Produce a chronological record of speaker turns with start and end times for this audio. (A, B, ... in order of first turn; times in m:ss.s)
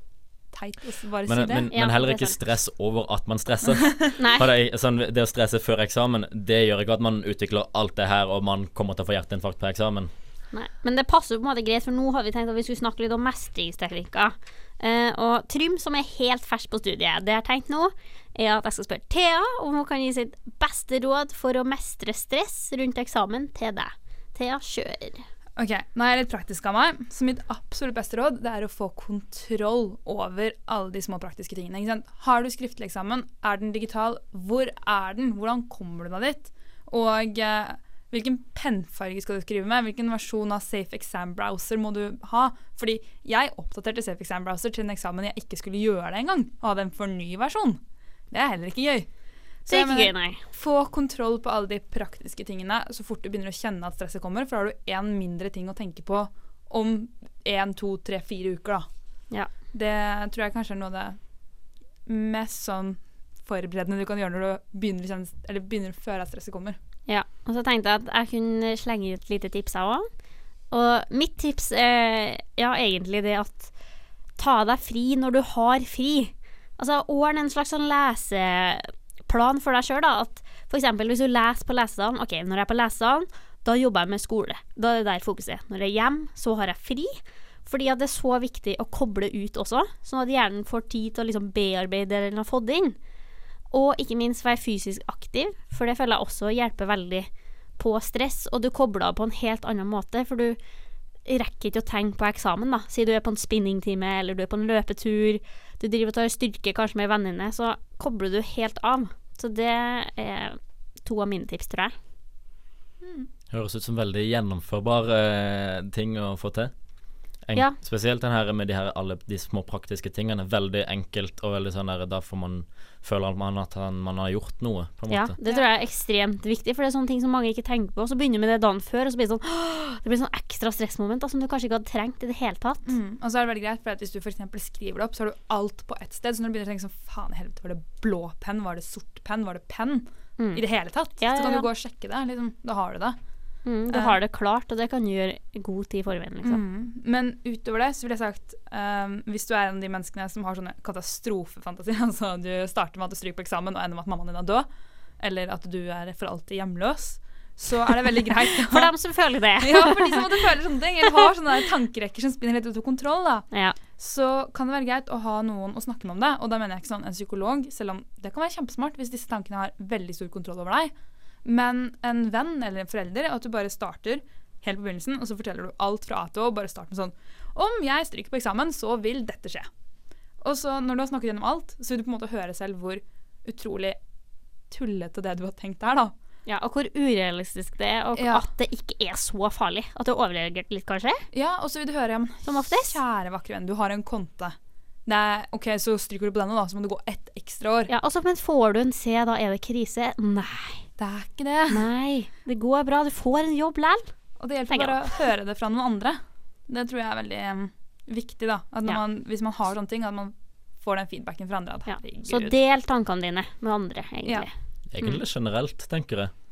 0:00.5-0:01.7 A
0:01.2-0:10.1 B
0:01.7-0:02.4 C
0:04.2-0:04.5 C
0:10.5-0:25.3 C
0:25.6-0:49.1 A
0:49.6-0:58.9 A
0:49.7-0:50.4 C
0:59.7-1:01.2 A
1:02.0-1:06.8 A
1:07.1-1:10.1 C
1:10.7-1:13.7 C
1:14.4-1:33.0 C
1:33.7-1:40.6 C
1:41.2-1:51.9 C
1:53.0-1:53.3 A
1:53.5-1:56.7 B
1:57.4-2:05.4 B
2:05.1-2:12.9 C
2:12.8-2:23.2 A
2:20.4-2:21.7 C
2:23.6-2:26.6 C
2:23.9-2:24.2 A
2:26.4-2:34.7 A
2:35.2-2:38.9 A
2:38.7-2:40.2 C
2:39.6-2:59.7 A
2:43.5-2:43.8 C
3:00.4-3:04.0 A
3:04.7-3:06.1 A
3:06.4-3:11.2 C
3:08.2-3:08.5 A
3:11.3-3:17.9 A
3:12.4-3:13.0 C
3:17.9-3:20.9 C
3:21.0-3:21.8 A
3:21.7-3:24.1 C
3:24.4-3:32.5 A
3:24.7-3:25.0 C
3:31.9-3:35.2 C
3:34.9-3:36.3 B